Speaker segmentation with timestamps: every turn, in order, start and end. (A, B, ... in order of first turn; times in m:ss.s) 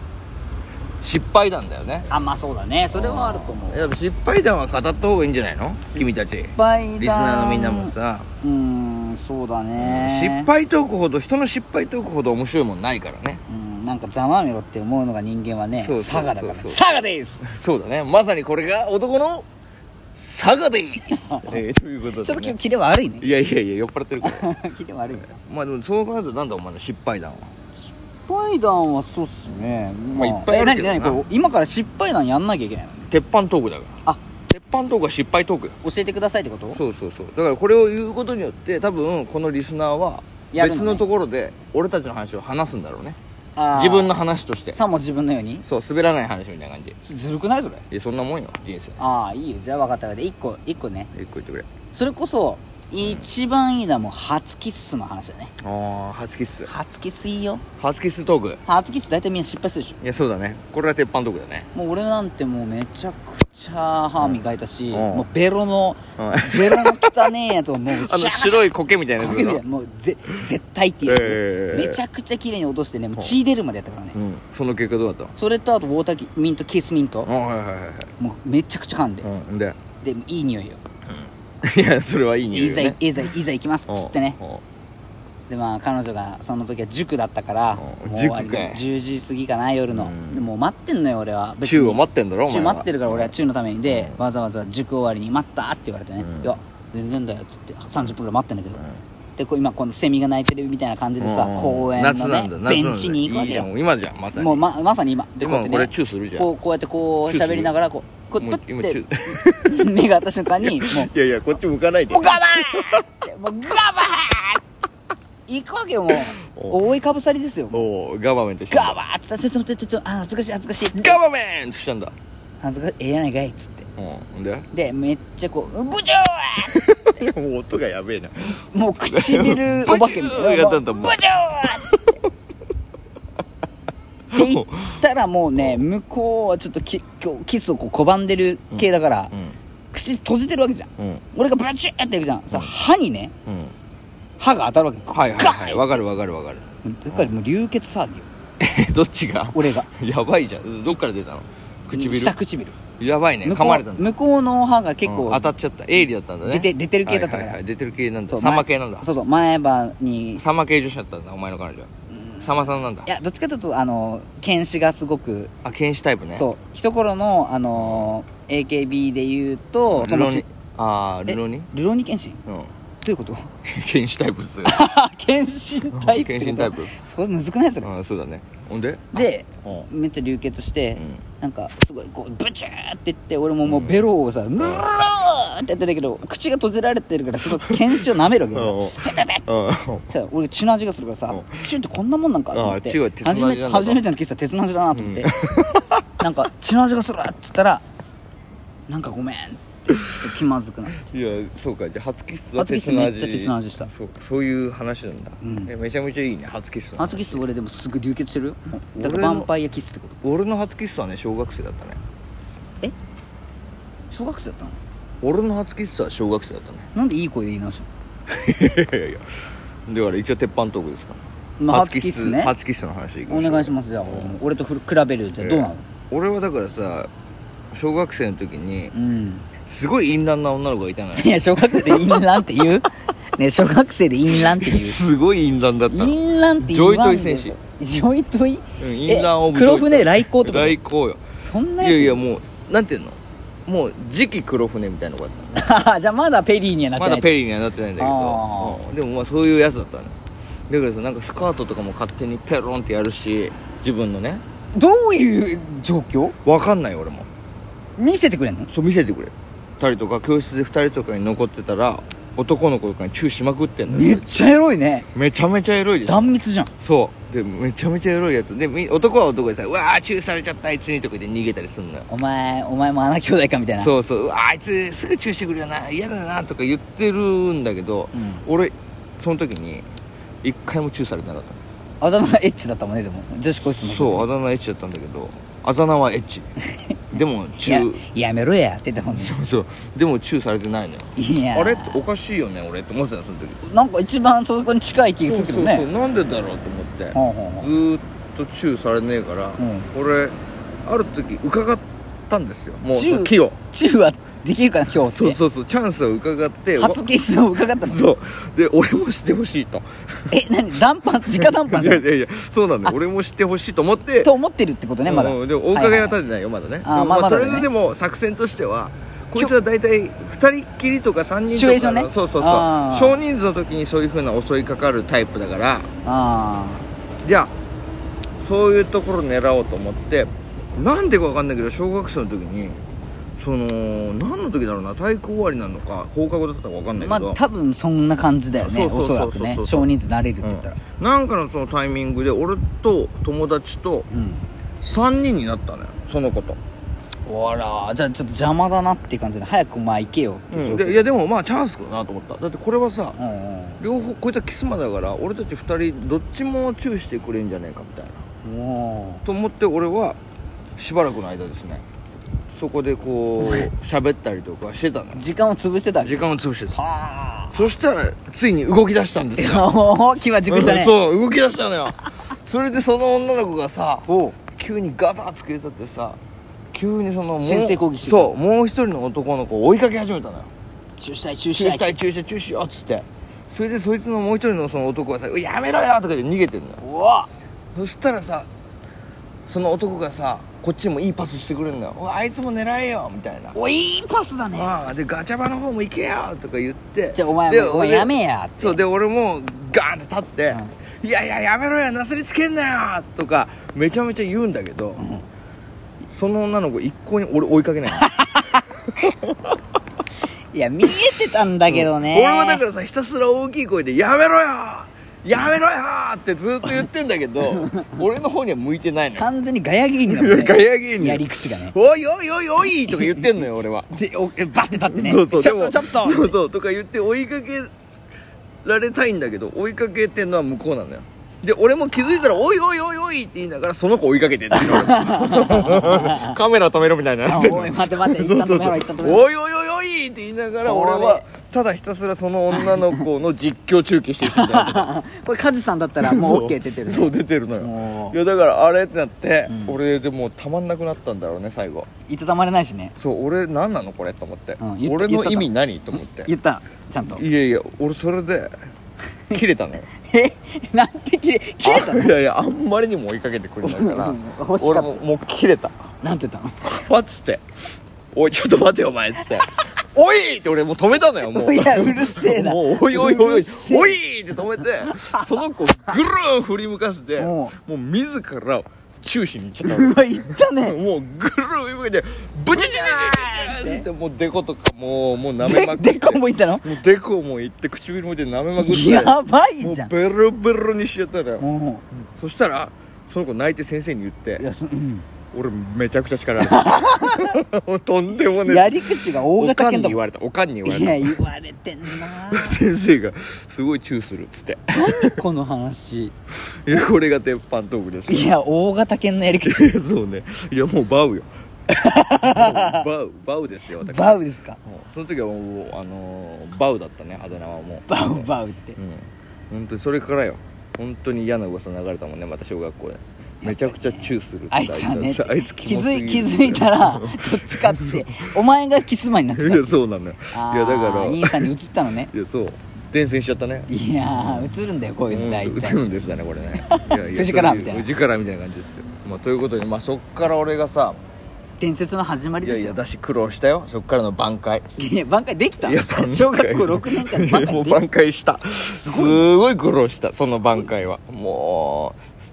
0:01.0-0:02.1 A
0:02.1-0:04.0 B
0:02.9-0:08.3 A
0:05.9-0:10.5 B
0:09.8-0:13.4 A
0:13.5-0:17.4 B
0:15.8-0:16.9 A
0:17.4-0:19.5 A
0:20.1-0:22.6 A
0:21.1-0:21.6 B
0:22.2-0:23.3 B
0:23.2-0:24.5 A
0:24.2-0:25.3 B
0:25.2-0:27.5 A
0:28.2-0:33.1 B
0:30.1-0:31.2 A
0:33.1-0:34.0 A
0:34.5-0:35.8 A
0:35.8-0:36.8 B
0:36.7-0:43.2 A
0:40.5-0:41.0 B
0:43.6-0:44.1 B
0:43.7-0:44.8 A
0:44.7-0:45.6 B
0:45.6-0:47.0 A
0:47.0-0:47.8 B
0:47.9-0:49.0 A
0:49.0-0:51.1 B
0:51.1-0:51.7 A
0:51.9-0:55.5 B
0:55.6-0:56.7 A
0:56.6-0:57.6 B
0:57.8-0:58.6 A
0:58.6-1:00.0 B
1:00.0-1:01.7 A
1:01.7-1:14.2 B
1:04.2-1:05.3 A
1:06.2-1:07.3 A
1:07.9-1:09.6 A
1:11.0-1:12.0 A
1:14.1-1:15.3 A
1:15.4-1:17.3 B
1:17.2-1:18.1 A
1:18.2-1:19.3 B
1:19.2-1:19.8 A
1:20.0-1:20.8 B
1:21.1-1:23.0 A
1:22.5-1:24.4 B
1:23.9-1:24.6 A
1:25.5-1:38.8 B
1:27.8-1:28.8 A
1:29.9-1:30.5 A
1:31.6-1:33.3 A
1:33.9-1:34.2 A
1:36.2-1:36.6 A
1:39.4-1:43.7 B
1:41.2-1:44.7 A
1:44.3-1:51.1 B
1:45.4-1:46.5 A
1:47.3-1:47.7 A
1:48.4-1:50.0 A
1:50.6-1:53.1 A
1:52.1-1:54.6 B
1:55.5-1:57.8 B
1:56.1-1:57.0 A
1:57.7-1:59.0 A
1:58.7-2:01.2 B
2:00.9-2:02.1 A
2:02.6-2:03.9 B
2:04.0-2:04.7 A
2:04.7-2:06.8 B
2:06.6-2:12.2 A
2:08.7-2:11.9 B
2:14.3-2:15.0 A
2:14.3-2:19.3 B
2:15.5-2:15.8 A
2:18.7-2:19.6 A
2:19.9-2:23.3 B
2:21.0-2:21.2 A
2:23.4-2:23.7 A
2:24.4-2:25.8 B
2:25.1-2:27.3 A
2:26.8-2:28.3 B
2:28.6-2:32.4 A
2:29.5-2:29.9 B
2:31.9-2:32.8 B
2:33.0-2:34.1 A
2:33.4-2:35.5 B
2:35.0-2:39.1 A
2:36.4-2:37.6 B
2:38.3-2:40.4 B
2:40.4-2:43.1 A
2:42.1-2:45.5 B
2:45.6-2:46.5 A
2:46.4-2:50.4 B
2:47.7-2:48.1 A
2:49.9-2:51.7 A
2:51.3-2:52.4 B
2:52.4-2:52.7 A
2:53.0-2:53.5 B
2:53.6-2:54.8 A
2:54.6-2:57.9 B
2:55.9-2:57.0 A
2:57.8-2:59.9 A
2:59.1-3:09.4 B
3:01.0-3:01.2 A
3:03.6-3:04.1 A
3:04.6-3:04.9 A
3:07.6-3:08.0 A
3:08.5-3:10.1 A
3:10.1-3:15.3 B
3:11.3-3:11.7 A
3:12.5-3:14.0 A
3:14.9-3:16.0 A
3:16.2-3:17.8 B
3:18.9-3:21.0 B
3:19.9-3:20.2 A
3:21.0-3:27.4 A
3:22.6-3:23.9 B
3:25.4-3:25.7 B
3:27.0-3:30.2 B
3:29.0-3:29.5 A
3:30.2-3:32.0 A
3:34.1-3:34.8 B
3:35.2-3:36.9 A
3:36.9-3:37.9 B
3:38.3-3:44.4 A
3:41.6-3:42.5 B
3:43.3-3:45.8 B
3:45.4-3:47.1 A
3:47.7-3:48.9 A
3:48.9-3:49.4 B
3:49.6-3:52.4 A
3:51.2-3:55.0 B
3:54.3-3:57.6 A
3:55.9-4:00.8 B
3:58.8-4:01.2 A
4:01.4-4:02.2 B
4:01.8-4:05.7 A
4:05.5-4:07.3 B
4:07.0-4:10.2 A
4:08.0-4:08.8 B
4:10.7-4:14.4 A
4:14.7-4:16.4 B
4:16.4-4:17.3 A
4:18.0-4:18.7 B
4:18.7-4:24.3 A
4:23.9-4:25.1 B
4:25.1-4:32.1 A
4:26.0-4:26.7 B
4:32.1-4:33.9 B
4:33.8-4:39.9 A
4:38.1-4:38.4 B
4:40.4-4:41.6 A
4:42.0-4:44.3 B
4:43.8-4:46.5 A
4:47.1-4:48.0 A
4:47.6-4:49.3 B
4:49.1-4:53.6 A
4:51.2-4:52.0 B
4:53.6-4:55.8 B
4:55.2-5:03.6 A
4:57.1-4:57.7 B
4:59.6-4:59.9 B
5:02.9-5:05.4 B
5:05.0-5:07.1 A
5:06.8-5:08.1 B
5:07.8-5:10.4 A
5:10.3-5:12.0 B
5:11.3-5:14.3 A
5:14.2-5:16.2 B
5:15.0-5:25.9 A
5:16.8-5:17.7 B
5:21.5-5:23.2 B
5:26.0-5:26.9 B
5:27.2-5:27.5 A
5:28.4-5:32.8 A
5:33.4-5:37.4 A
5:37.0-5:40.8 B
5:38.6-5:39.9 A
5:40.4-5:44.1 A
5:44.1-5:44.4 B
5:44.8-5:46.6 A
5:47.2-5:51.1 B
5:50.5-5:53.2 A
5:53.2-5:53.8 B
5:53.8-5:58.2 A
5:58.4-5:59.2 B
5:59.2-6:00.2 A
6:00.8-6:01.8 A
6:02.5-6:05.2 A
6:03.4-6:03.7 B
6:05.1-6:07.6 B
6:06.0-6:06.8 A
6:07.5-6:09.7 A
6:09.4-6:11.0 B
6:10.5-6:16.2 A
6:14.0-6:14.4 B
6:16.7-6:20.5 A
6:17.4-6:18.3 B
6:21.0-6:21.9 B
6:21.6-6:26.8 A
6:26.8-6:27.3 B
6:27.7-6:28.5 A
6:29.5-6:33.6 A
6:33.5-6:34.8 B
6:34.5-6:45.0 A
6:37.1-6:38.8 B
6:45.0-6:45.2 B
6:46.0-6:48.2 A
6:48.0-6:48.6 B
6:48.9-6:49.6 A
6:50.5-6:52.6 B
6:51.7-6:59.3 A
6:57.5-6:57.9 B
6:59.2-7:01.8 B
7:00.0-7:03.9 A
7:02.9-7:03.4 B
7:03.9-7:06.4 B
7:04.9-7:07.7 A
7:08.6-7:24.9 A
7:14.5-7:16.4 B
7:17.2-7:19.3 B
7:20.6-7:21.2 B
7:22.5-7:23.0 B
7:24.2-7:28.2 B
7:26.0-7:31.9 A
7:29.5-7:29.8 B
7:32.1-7:32.9 B
7:33.0-7:36.3 A
7:34.6-7:37.2 B
7:37.0-7:38.6 A
7:39.3-7:39.9 A
7:39.9-7:42.1 B
7:41.6-7:45.8 A
7:43.6-7:45.0 B
7:46.0-7:46.8 B
7:46.6-7:47.4 A
7:48.1-8:11.4 A
7:51.2-7:55.2 B
7:57.2-7:57.5 B
7:59.6-8:00.8 B
8:02.5-8:03.8 B
8:05.4-8:06.7 B
8:08.6-8:09.9 B
8:11.4-8:11.8 B
8:12.1-8:14.4 A
8:14.4-8:15.0 B
8:15.3-8:21.2 A
8:16.4-8:17.4 B
8:18.4-8:20.0 B
8:20.6-8:22.6 B
8:21.9-8:25.2 A
8:24.7-8:26.1 B
8:26.5-8:28.3 A
8:28.1-8:29.7 B
8:29.4-8:31.3 A
8:31.7-8:32.8 B
8:32.2-8:48.4 A
8:33.8-8:34.6 B
8:37.9-8:38.8 B
8:43.4-8:49.8 B
8:49.3-8:51.5 A
8:50.3-8:52.1 B
8:52.1-8:54.6 A
8:53.7-8:55.8 B
8:55.1-9:01.0 A
8:56.6-8:57.9 B
9:01.6-9:02.8 B
9:02.4-9:04.6 A
9:04.8-9:07.8 B
9:05.6-9:12.0 A
9:08.8-9:09.3 B